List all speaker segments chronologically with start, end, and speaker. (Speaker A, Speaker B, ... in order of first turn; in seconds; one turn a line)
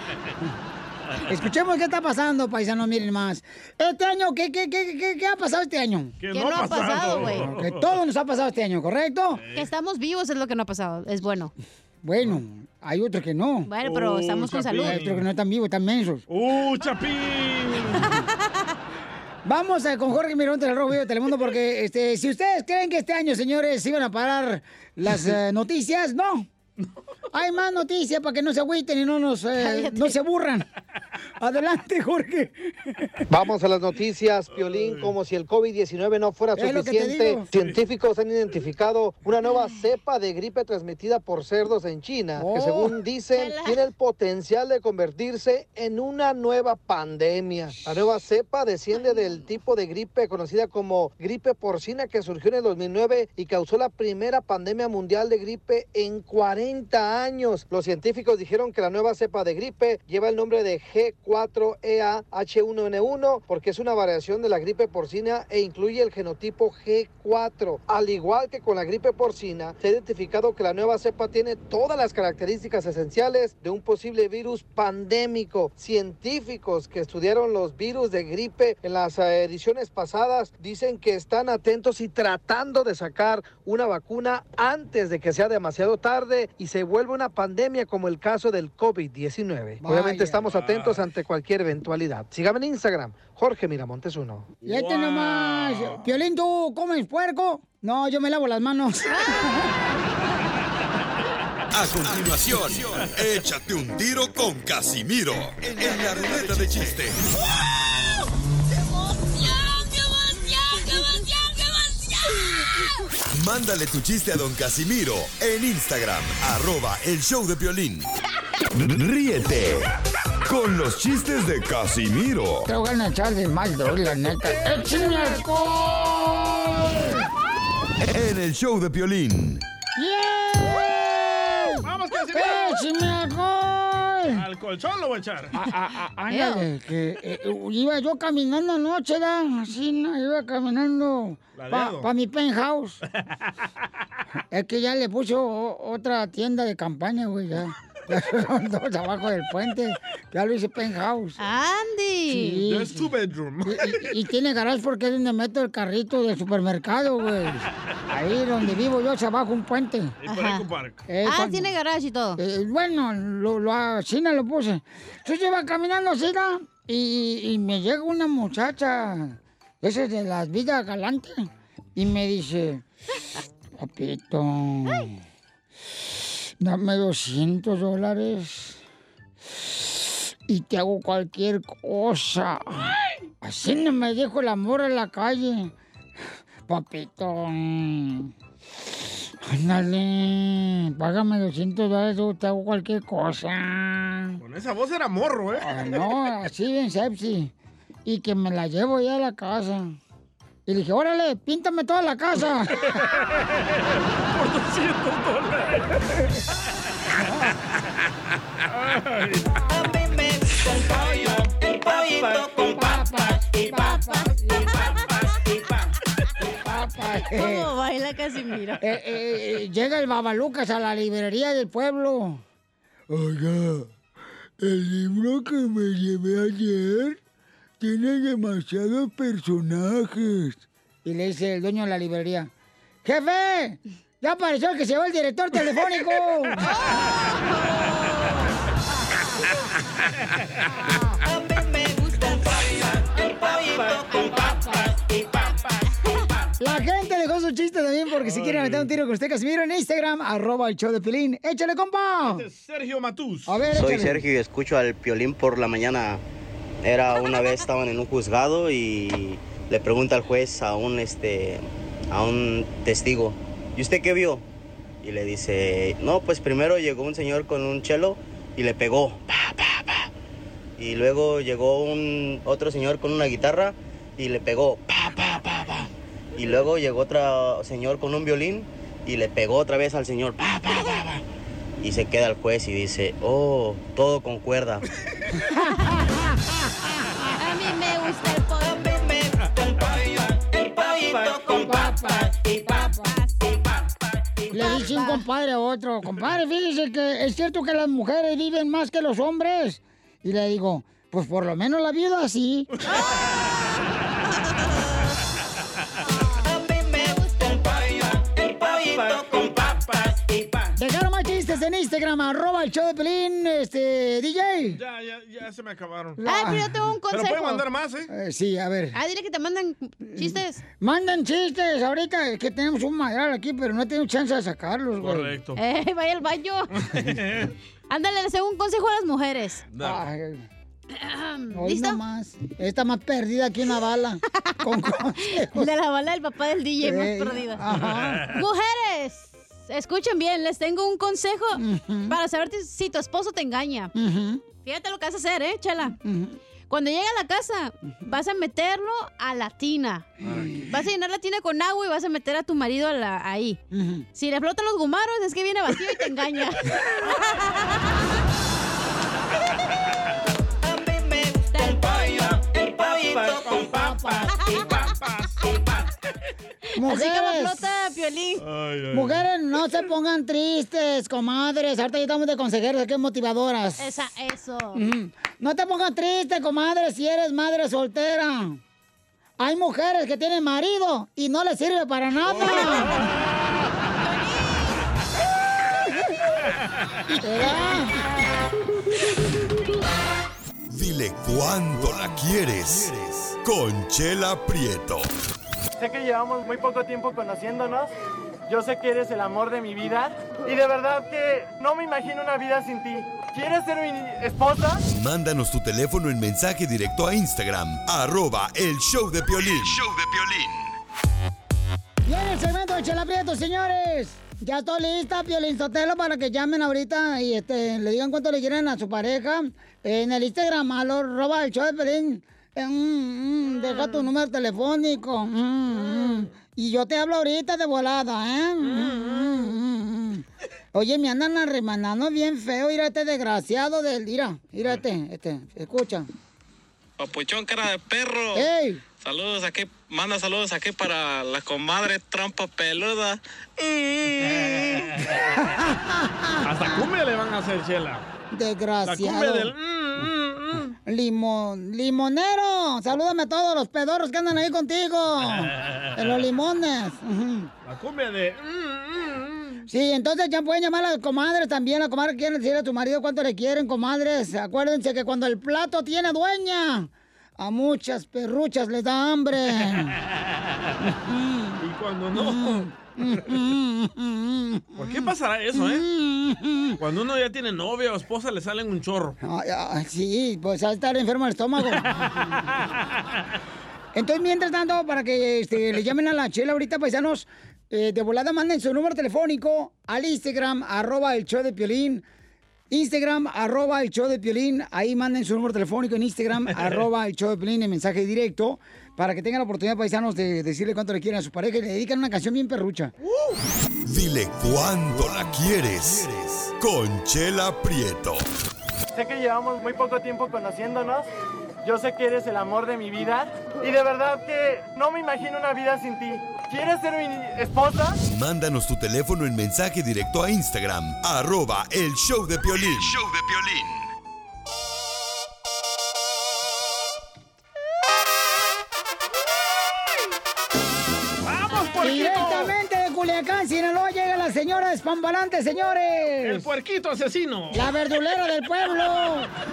Speaker A: 1.3-6.2
Speaker B: 6.2-7.9
Speaker C: 6.3-7.5
Speaker A: 7.3-9.4
Speaker B: 9.4-9.7
Speaker C: 9.5-11.5
Speaker A: 12.0-13.7
Speaker C: 13.7-15.0
Speaker B: 13.8-15.3
Speaker A: 14.8-16.2
Speaker B: 16.3-18.1
Speaker C: 18.0-18.7
Speaker A: 19.4-26.5
Speaker A: 27.3-30.7
Speaker C: 29.6-30.2
Speaker A: 31.4-33.1
Speaker D: 33.3-94.6
Speaker B: 34.7-35.1
Speaker A: 36.6-37.5
Speaker A: 42.4-43.0
Speaker C: 43.4-43.8
Speaker C: 48.9-49.5
Speaker A: 89.8-90.4
Speaker B: 90.5-91.0
Speaker A: 94.7-99.8
Speaker B: 94.7-96.1
Speaker E: 101.7-107.2
Speaker B: 102.3-103.1
Speaker E: 113.3-118.0
Speaker E: 118.8-119.9
Speaker E: 120.5-122.7
Speaker A: 122.7-127.3
Speaker E: 128.0-129.6
Speaker A: 130.0-134.4
Speaker B: 131.8-132.8
Speaker B: 134.3-135.6
Speaker A: 135.6-143.0
Speaker C: 136.3-136.7
Speaker B: 141.6-142.1
Speaker A: 144.5-151.4
Speaker C: 151.4-152.6
Speaker A: 152.3-153.1
Speaker B: 152.7-154.1
Speaker A: 153.7-160.2
Speaker B: 160.2-161.1
Speaker C: 160.3-160.7
Speaker A: 161.1-161.7
Speaker C: 161.2-162.4
Speaker A: 162.4-172.8
Speaker A: 173.8-175.2
Speaker A: 176.6-178.8
Speaker A: 179.7-185.7
Speaker A: 186.7-188.3
Speaker A: 189.4-194.4
Speaker B: 194.4-195.8
Speaker A: 195.6-197.5
Speaker A: 198.1-200.0
Speaker A: 200.7-203.0
Speaker B: 202.9-203.5
Speaker B: 204.2-206.2
Speaker B: 208.7-209.5
Speaker F: 209.7-213.9
Speaker A: 212.7-214.8
Speaker C: 213.8-214.3
Speaker F: 214.7-215.7
Speaker A: 216.6-217.7
Speaker C: 217.3-218.8
Speaker A: 218.8-222.4
Speaker A: 223.1-223.9
Speaker A: 224.6-227.2
Speaker A: 227.8-232.5
Speaker A: 233.1-236.7
Speaker C: 236.6-238.5
Speaker F: 241.2-245.5
Speaker A: 246.6-252.4
Speaker B: 248.2-248.9
Speaker B: 252.3-253.7
Speaker A: 253.5-254.2
Speaker G: 253.7-256.2
Speaker G: 256.8-264.4
Speaker G: 265.0-270.1
Speaker G: 270.8-281.2
Speaker G: 281.8-284.9
Speaker A: 285.4-287.1
Speaker C: 287.4-288.9
Speaker F: 288.7-293.8
Speaker A: 291.6-293.2
Speaker C: 293.1-293.3
Speaker A: 294.5-302.7
Speaker C: 294.6-295.2
Speaker C: 304.4-304.9
Speaker F: 306.4-310.7
Speaker A: 310.8-314.8
Speaker B: 314.7-316.2
Speaker A: 316.2-316.7
Speaker C: 316.2-317.6
Speaker B: 317.1-318.1
Speaker A: 318.1-319.0
Speaker C: 318.9-320.6
Speaker A: 320.1-325.3
Speaker B: 325.0-325.6
Speaker C: 325.6-326.7
Speaker B: 326.8-327.5
Speaker C: 327.9-329.6
Speaker B: 329.7-330.1
Speaker A: 329.8-330.5
Speaker C: 330.9-332.0
Speaker A: 331.5-335.7
Speaker C: 334.3-334.6
Speaker C: 335.3-337.6
Speaker A: 336.8-338.3
Speaker B: 337.7-338.3
Speaker C: 338.3-343.9
Speaker A: 341.6-342.2
Speaker A: 343.9-344.4
Speaker C: 344.6-346.0
Speaker A: 346.0-346.4
Speaker C: 346.7-350.1
Speaker A: 350.2-350.7
Speaker C: 350.7-353.6
Speaker A: 353.7-354.1
Speaker C: 354.1-358.1
Speaker F: 360.6-364.2
Speaker A: 363.7-364.9
Speaker C: 364.3-364.8
Speaker B: 364.9-365.3
Speaker A: 366.8-367.6
Speaker C: 366.8-368.4
Speaker B: 368.4-369.3
Speaker A: 368.9-373.9
Speaker C: 373.8-374.8
Speaker A: 374.8-378.6
Speaker A: 379.4-383.1
Speaker C: 382.4-383.1
Speaker B: 383.0-383.3
Speaker C: 384.0-384.8
Speaker A: 387.1-388.0
Speaker E: 390.7-395.1
Speaker H: 395.8-397.9
Speaker H: 398.5-404.8
Speaker E: 404.9-410.7
Speaker A: 412.1-436.1
Speaker B: 425.8-426.1
Speaker B: 428.6-429.5
Speaker I: 437.0-438.5
Speaker A: 438.4-438.8
Speaker I: 439.0-444.0
Speaker B: 444.2-445.1
Speaker A: 445.5-446.9
Speaker B: 446.4-448.0
Speaker A: 448.3-450.1
Speaker B: 448.9-450.7
Speaker A: 450.9-457.5
Speaker B: 455.3-456.2
Speaker B: 457.6-459.7
Speaker A: 459.7-470.0
Speaker A: 470.8-471.6
Speaker B: 471.6-473.4
Speaker A: 472.1-476.8
Speaker B: 474.8-475.9
Speaker B: 476.8-479.2
Speaker A: 479.2-482.5
Speaker B: 481.8-482.6
Speaker A: 483.9-492.0
Speaker A: 492.7-502.9
Speaker E: 503.9-508.2
Speaker H: 508.9-511.1
Speaker H: 511.6-518.0
Speaker E: 518.0-523.9
Speaker B: 531.2-532.5
Speaker A: 531.8-536.5
Speaker B: 536.2-537.7
Speaker A: 537.5-539.3